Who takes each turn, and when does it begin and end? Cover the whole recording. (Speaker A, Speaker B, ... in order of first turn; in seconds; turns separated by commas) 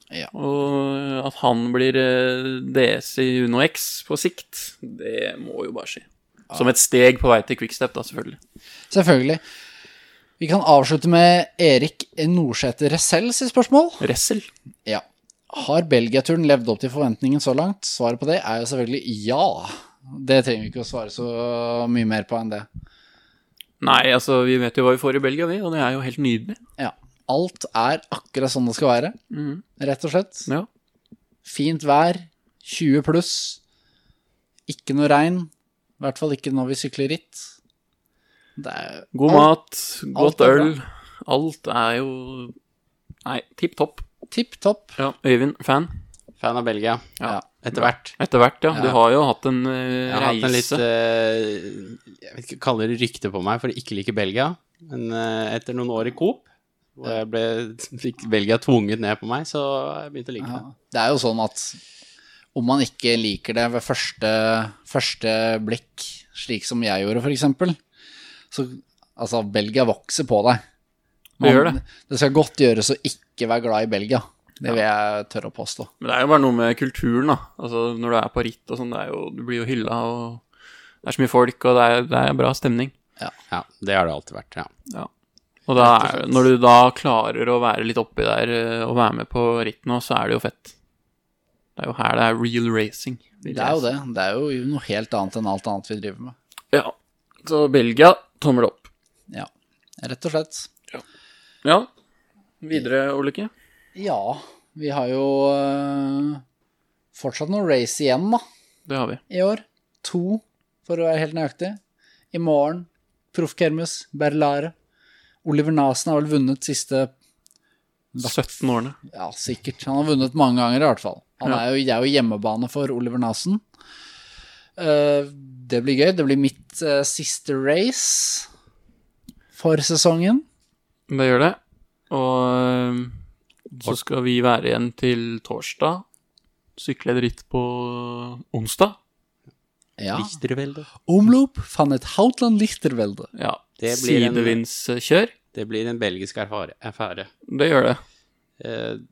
Speaker A: 0.3-8.4, Speaker B: 8.9-9.4, Speaker B: 10.4-14.0, Speaker A: 14.0-14.5, Speaker B: 14.9-22.7, Speaker A: 23.8-26.6, Speaker B: 26.8-29.2, Speaker A: 29.3-29.6, Speaker B: 29.8-30.5, Speaker B: 31.4-33.6, Speaker B: 34.7-37.5, Speaker B: 38.6-39.5, Speaker A: 39.1-42.5, Speaker B: 40.1-40.7, Speaker A: 43.2-44.1, Speaker B: 44.3-45.0, Speaker A: 45.0-45.9, Speaker C: 46.4-48.1, Speaker A: 47.2-50.8, Speaker B: 48.7-49.0, Speaker C: 50.1-56.5, Speaker C: 57.0-60.6, Speaker B: 60.4-61.8, Speaker B: 62.5-67.8, Speaker B: 68.5-70.6, Speaker B: 71.4-75.9, Speaker A: 71.4-71.8, Speaker A: 76.0-80.4, Speaker A: 81.0-82.9, Speaker C: 83.5-84.7, Speaker A: 85.7-90.8, Speaker B: 85.8-86.5, Speaker A: 91.8-93.8, Speaker B: 93.5-96.3, Speaker A: 96.7-98.9, Speaker B: 99.3-100.7, Speaker A: 101.6-101.9, Speaker A: 102.6-103.5, Speaker B: 104.0-106.4, Speaker B: 107.1-108.4, Speaker A: 108.9-109.2, Speaker B: 109.3-111.8, Speaker B: 112.3-114.7, Speaker B: 115.4-117.1, Speaker B: 118.1-118.4, Speaker A: 118.2-119.0, Speaker B: 119.1-123.6, Speaker B: 124.8-128.5, Speaker B: 129.5-130.4, Speaker A: 131.1-131.6, Speaker A: 132.1-133.2, Speaker A: 133.8-136.0, Speaker A: 136.8-139.0, Speaker B: 140.0-140.4, Speaker C: 140.1-140.9, Speaker B: 141.0-143.3, Speaker A: 143.3-145.3, Speaker C: 143.8-144.6, Speaker C: 145.5-147.3, Speaker A: 147.5-148.0, Speaker C: 148.6-149.0